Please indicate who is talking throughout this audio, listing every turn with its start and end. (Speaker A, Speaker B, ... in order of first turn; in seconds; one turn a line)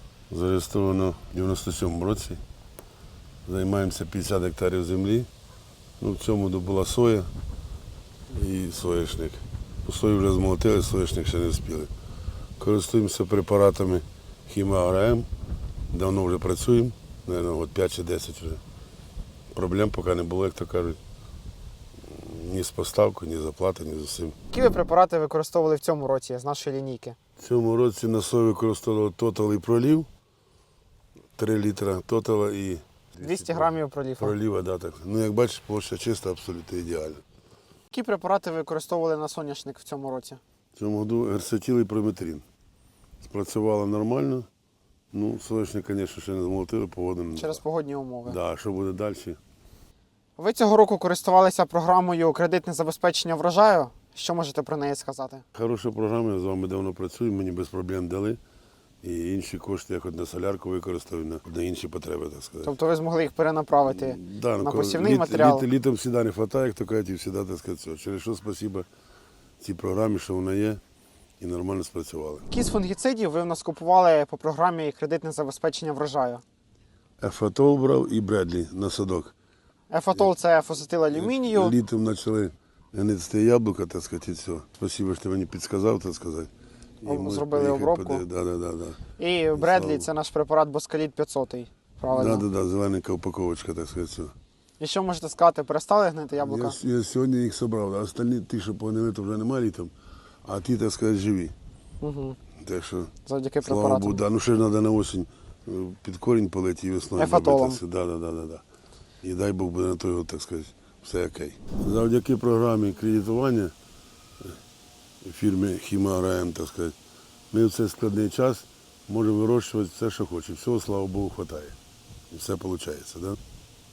Speaker A: 0.3-2.4
Speaker A: 3.5-5.3
Speaker A: 6.0-7.3
Speaker A: 8.3-11.9
Speaker A: 12.6-15.3
Speaker A: 15.9-18.6
Speaker A: 19.5-21.0
Speaker A: 22.0-24.4
Speaker B: 24.5-27.2
Speaker A: 27.4-30.1
Speaker A: 31.4-37.2
Speaker B: 33.2-34.4
Speaker B: 37.9-40.4
Speaker A: 40.8-42.4
Speaker A: 43.2-44.5
Speaker A: 45.1-47.6
Speaker B: 47.4-48.4
Speaker A: 48.2-49.4
Speaker B: 50.4-55.4
Speaker A: 55.5-58.4
Speaker A: 59.0-62.7
Speaker B: 62.6-65.7
Speaker A: 63.9-68.9
Speaker A: 69.6-70.8
Speaker A: 71.4-72.5
Speaker B: 72.5-76.4
Speaker A: 77.2-79.3
Speaker B: 79.9-81.8
Speaker A: 81.1-86.5
Speaker A: 87.0-89.0
Speaker B: 87.0-88.2
Speaker B: 89.2-92.5
Speaker A: 89.5-90.1
Speaker A: 92.1-94.3
Speaker B: 94.8-96.8
Speaker A: 96.4-99.9
Speaker A: 100.5-101.5
Speaker B: 102.0-102.4
Speaker A: 102.6-108.6
Speaker B: 103.3-104.2
Speaker B: 107.2-107.8
Speaker A: 109.2-113.7
Speaker A: 115.2-117.0
Speaker A: 117.5-121.8
Speaker A: 122.3-123.4